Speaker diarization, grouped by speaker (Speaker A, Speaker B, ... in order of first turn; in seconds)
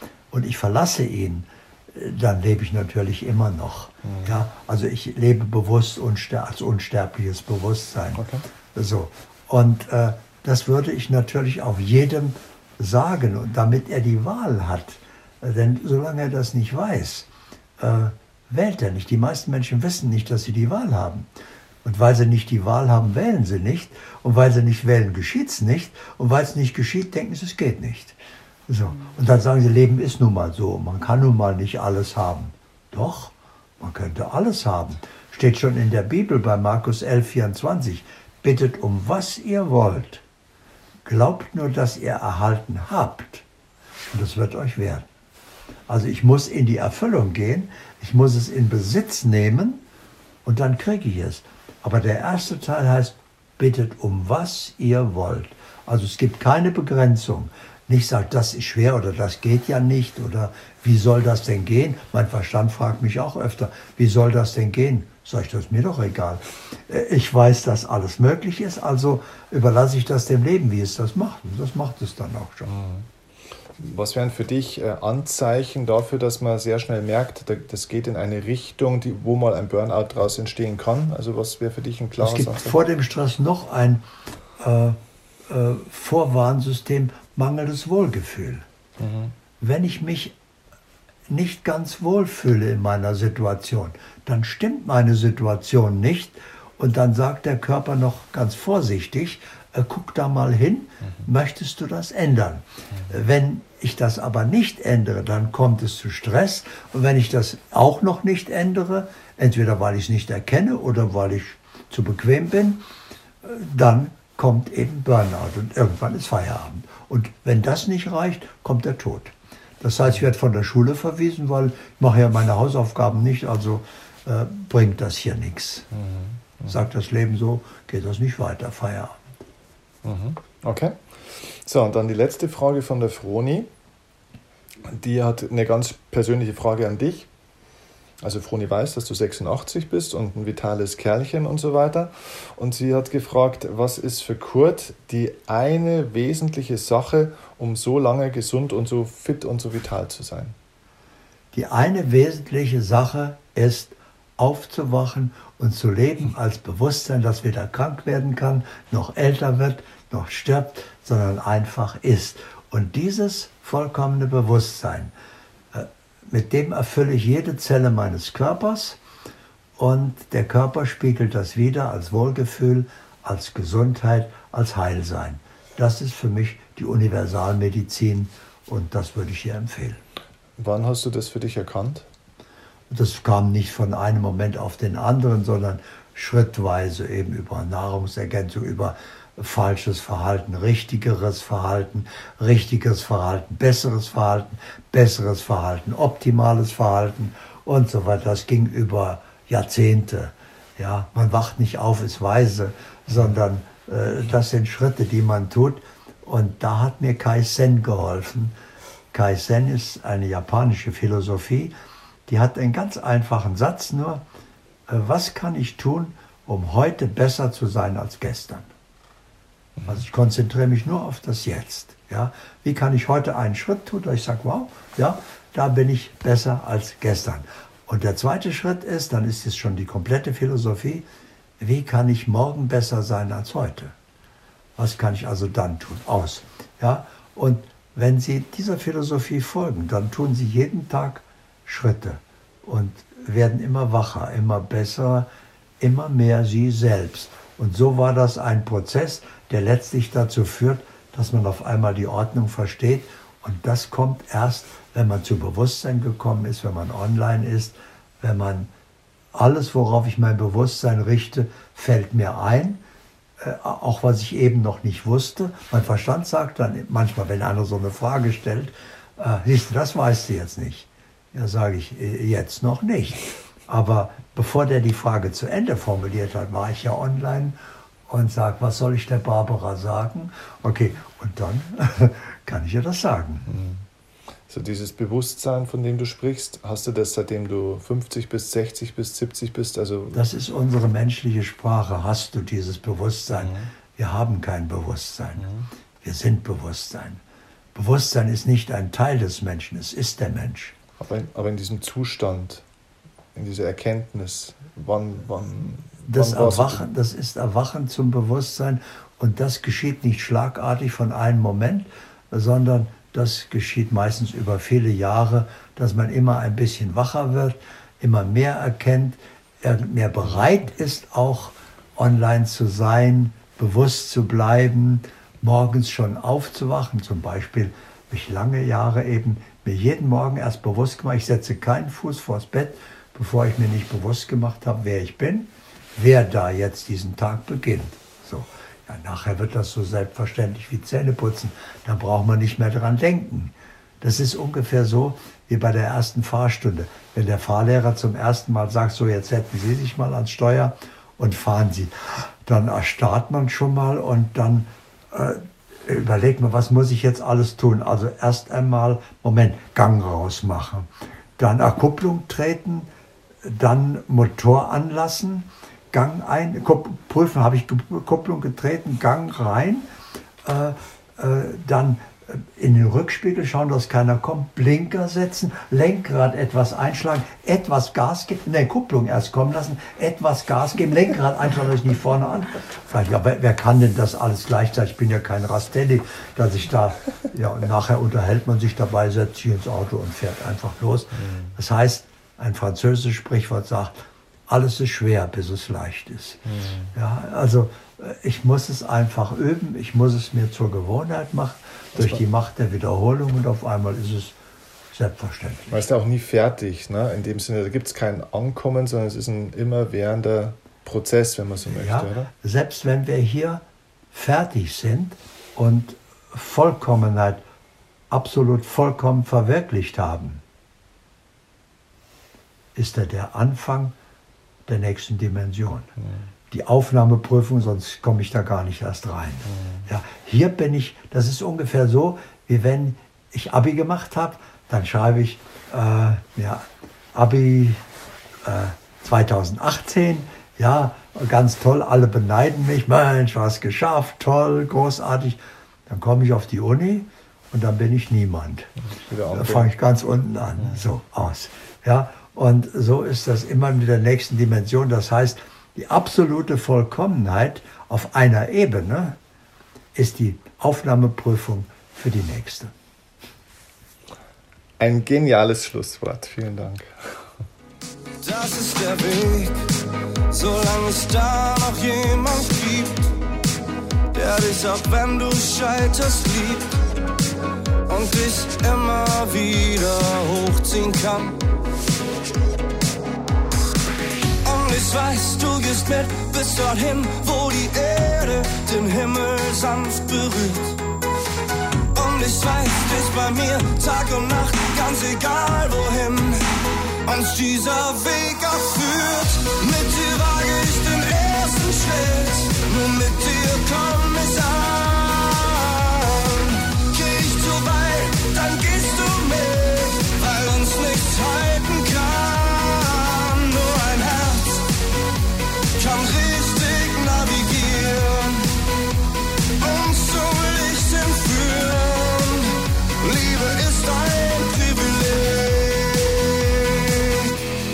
Speaker A: 0.3-21.3, 21.8-40.2, 41.0-43.5, 44.0-45.1, 45.9-49.8, 50.5-72.7, 82.2-84.0, 84.6-88.7, 89.6-90.3, 91.3-112.8, 113.4-125.9, 126.7-129.2, 151.5-165.1, 165.7-169.0, 169.8-180.0, 182.9-208.6, 209.1-211.7, 212.3-214.2, 214.9-218.7, 219.8-231.1, 231.6-233.9, 234.8-245.3, 245.8-258.7, 259.3-262.8, 263.4-283.5, 290.1-295.5, 296.0-297.2, 297.8-300.8, 306.1-362.9, 363.4-369.9, 370.4-393.9, 394.5-396.4, 396.9-404.4, 404.9-405.9, 411.8-417.4, 418.1-420.4, 422.8-423.9, 424.7-425.9, 426.5-437.9, 438.4-448.7, 449.3-459.2, 459.9-462.7
Speaker B: 4.0-4.4, 8.2-8.4, 72.7-73.1, 73.8-82.8, 89.0-89.3, 125.9-126.8, 130.0-133.7, 134.8-137.3, 138.2-150.6, 180.6-182.1, 283.5-283.9, 284.5-290.2, 293.4-293.7, 295.4-295.7, 301.0-302.6, 303.4-306.9, 391.1-391.6, 396.4-396.9, 405.7-412.3, 426.0-426.3, 429.5-429.9, 448.9-449.7, 464.8-467.2
Speaker C: 468.2-469.6, 470.3-473.1, 474.1-476.8, 477.9-481.4, 484.4-490.8, 491.9-496.5, 497.1-514.7, 515.8-518.5, 519.6-527.3